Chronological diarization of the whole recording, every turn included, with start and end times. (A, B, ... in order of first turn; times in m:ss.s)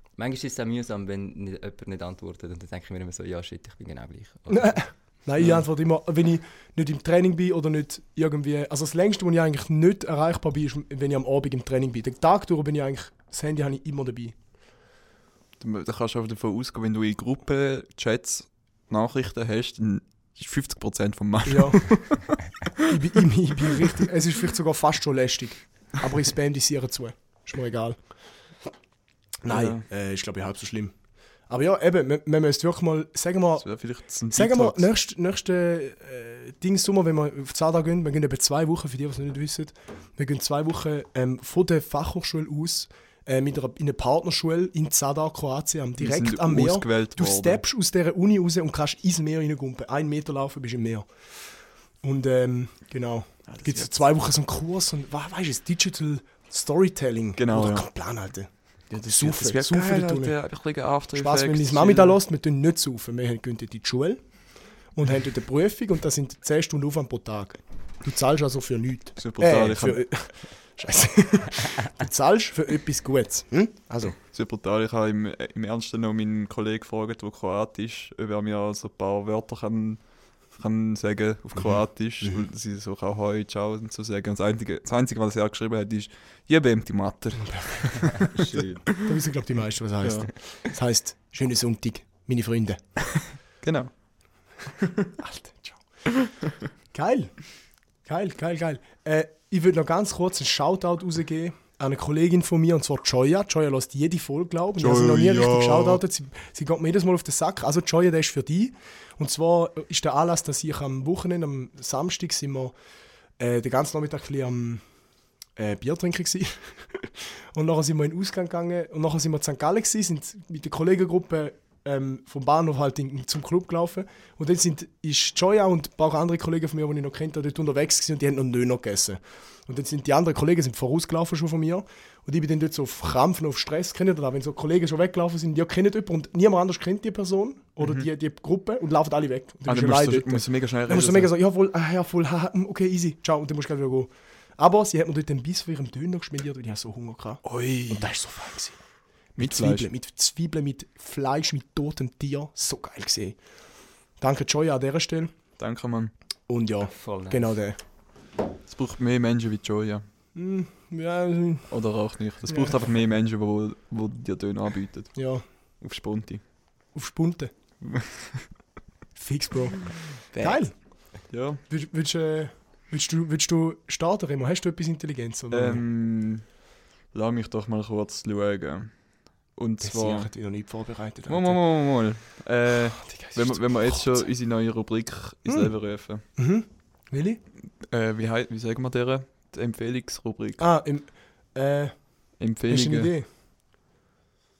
0:00.2-0:04.8 A
0:04.5-0:14.3 B
0:15.6-0:22.8 C
0:21.4-0:22.0 B
0:22.8-0:28.0 B
0:29.4-0:30.9 B
0:29.5-0:29.8 C
0:31.5-0:33.6 B
0:33.6-0:34.9 C
0:34.3-0:51.1 B
0:46.0-0:47.6 C
0:52.0-0:58.5 B
0:53.5-0:54.0 C
0:57.4-0:57.9 C
0:58.9-1:02.2 C
0:59.0-1:00.3 B
1:01.1-1:04.2 B
1:04.9-1:14.2 B
1:09.2-1:10.0 C
1:14.2-1:20.0 C
1:20.5-1:28.3 C
1:27.4-1:28.3 B
1:28.1-1:28.9 A
1:28.9-1:32.8 B
1:30.0-1:30.3 C
1:33.6-1:33.9 C
1:34.8-1:35.1 C
1:35.2-1:35.8 B
1:36.1-1:36.5 C
1:36.9-1:37.3 B
1:38.0-1:52.7 B
1:44.8-1:46.0 C
1:53.4-1:54.8 B
1:55.6-2:28.8 B
2:17.8-2:18.1 C
2:19.7-2:21.3 C
2:27.4-2:28.1 C
2:29.4-2:33.4 B
2:29.4-2:29.9 C
2:34.2-2:35.3 B
2:35.6-2:36.1 C
2:36.5-2:37.8 B
2:36.9-2:37.6 A
2:38.7-2:40.0 C
2:40.3-2:41.7 B
2:41.7-2:45.2 C
2:42.5-2:42.8 B
2:45.1-2:45.4 B
2:45.8-2:46.4 C
2:46.9-2:47.5 B
2:47.8-2:48.5 C
2:49.2-2:50.7 B
2:50.3-2:50.6 C
2:51.3-2:51.6 C
2:51.7-2:55.8 B
2:55.5-2:56.4 C
2:57.1-2:58.9 C
2:59.6-3:00.3 C
2:59.8-3:01.6 B
3:01.3-3:06.2 C
3:03.0-3:04.1 B
3:05.5-3:05.7 B
3:06.3-3:07.4 B
3:07.8-3:10.6 C
3:10.6-3:12.0 B
3:12.4-3:13.1 C
3:12.7-3:13.2 B